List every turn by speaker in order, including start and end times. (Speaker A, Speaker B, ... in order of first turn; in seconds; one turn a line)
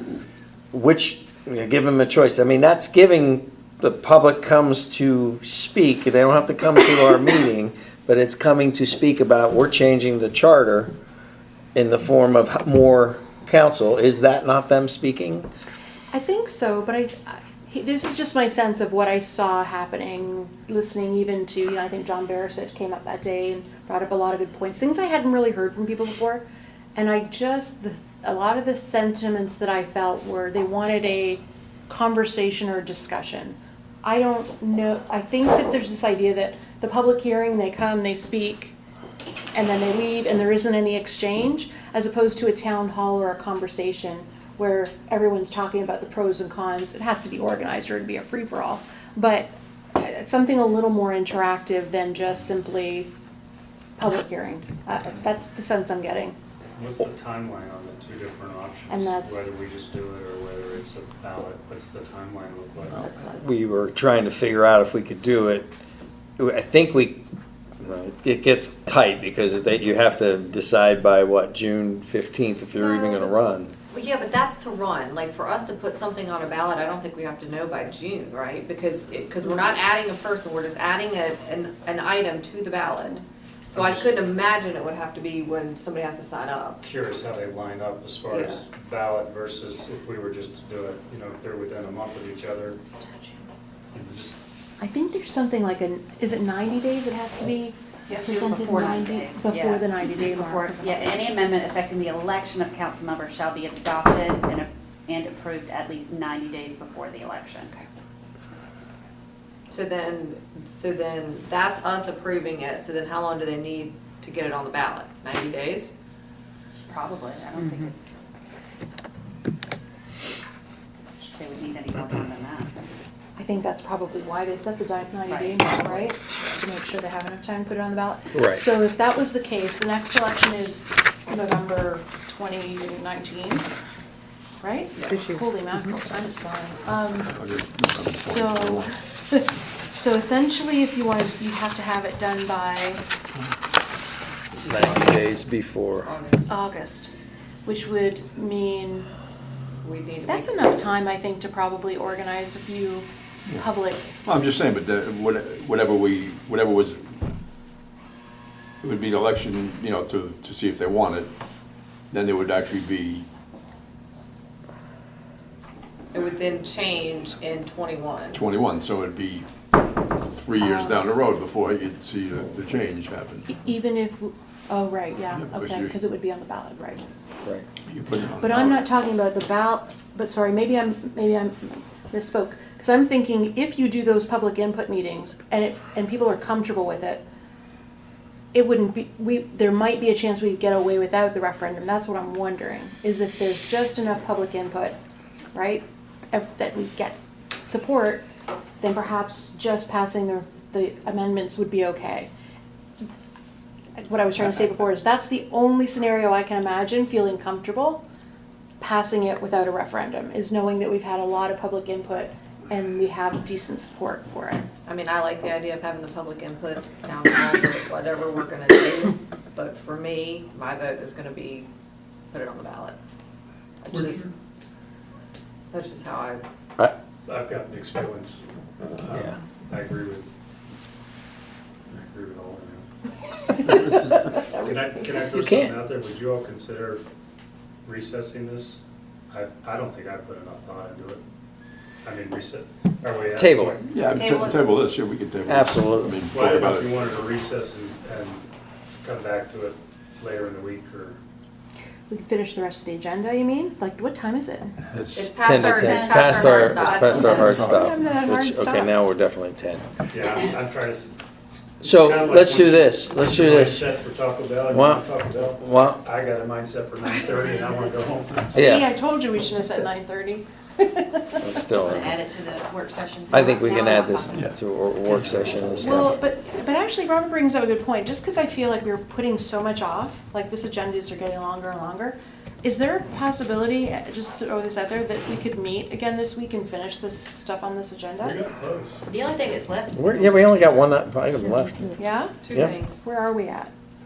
Speaker A: 0.7-10.9
Speaker A: 11.7-15.5
Speaker B: 16.1-38.8
Speaker B: 39.5-53.1
Speaker B: 54.0-56.4
Speaker C: 56.7-63.0
Speaker B: 58.9-59.5
Speaker B: 63.0-63.4
Speaker A: 63.2-65.7
Speaker A: 66.4-67.2
Speaker A: 67.8-73.7
Speaker D: 72.8-73.3
Speaker D: 73.9-86.8
Speaker C: 83.7-84.1
Speaker C: 86.8-92.8
Speaker D: 88.3-88.6
Speaker B: 92.8-93.5
Speaker C: 93.9-94.4
Speaker B: 94.8-101.2
Speaker E: 98.1-107.8
Speaker D: 109.7-115.9
Speaker E: 116.8-118.1
Speaker E: 121.2-122.9
Speaker B: 123.3-133.7
Speaker E: 125.3-125.8
Speaker A: 128.3-128.6
Speaker B: 134.6-137.4
Speaker D: 134.9-135.4
Speaker F: 137.3-138.9
Speaker B: 137.9-143.0
Speaker A: 144.6-146.1
Speaker D: 146.0-146.5
Speaker B: 146.5-147.1
Speaker B: 147.6-149.1
Speaker D: 149.8-150.7
Speaker B: 150.2-154.1
Speaker F: 154.2-157.1
Speaker F: 158.8-161.3
Speaker F: 162.1-163.3
Speaker D: 166.1-168.4
Speaker F: 168.3-169.5
Speaker F: 170.4-173.5
Speaker B: 170.6-171.0
Speaker B: 173.5-177.0
Speaker F: 175.3-175.9
Speaker F: 177.8-178.8
Speaker B: 178.4-187.2
Speaker B: 188.5-195.0
Speaker B: 195.5-198.2
Speaker B: 198.8-202.3
Speaker B: 204.0-208.0
Speaker B: 208.8-214.7
Speaker D: 214.8-221.7
Speaker D: 222.3-223.0
Speaker D: 223.8-224.3
Speaker C: 223.9-224.3
Speaker D: 225.7-226.4
Speaker C: 227.2-228.4
Speaker C: 228.9-230.3
Speaker C: 231.9-232.8
Speaker C: 234.5-237.0
Speaker A: 235.3-235.7
Speaker C: 237.8-241.2
Speaker C: 242.0-243.9
Speaker A: 243.4-243.8
Speaker F: 243.9-246.9
Speaker D: 244.1-244.7
Speaker A: 245.5-246.2
Speaker C: 246.3-248.4
Speaker C: 249.0-251.2
Speaker B: 252.1-254.8
Speaker F: 254.9-255.3
Speaker D: 255.1-257.6
Speaker A: 255.3-259.8
Speaker B: 255.8-256.6
Speaker F: 257.1-257.8
Speaker B: 257.3-258.9
Speaker C: 260.1-268.6
Speaker A: 261.8-263.8
Speaker A: 264.7-265.0
Speaker A: 265.6-266.0
Speaker A: 268.5-268.9
Speaker B: 268.6-271.6
Speaker A: 271.4-272.1
Speaker D: 271.8-274.5
Speaker A: 273.3-276.2
Speaker C: 275.1-275.6
Speaker B: 275.8-288.4
Speaker C: 288.2-289.0
Speaker D: 289.1-290.6
Speaker A: 289.9-292.0
Speaker B: 292.0-292.4
Speaker D: 292.4-293.1
Speaker A: 292.5-292.8
Speaker B: 293.0-293.7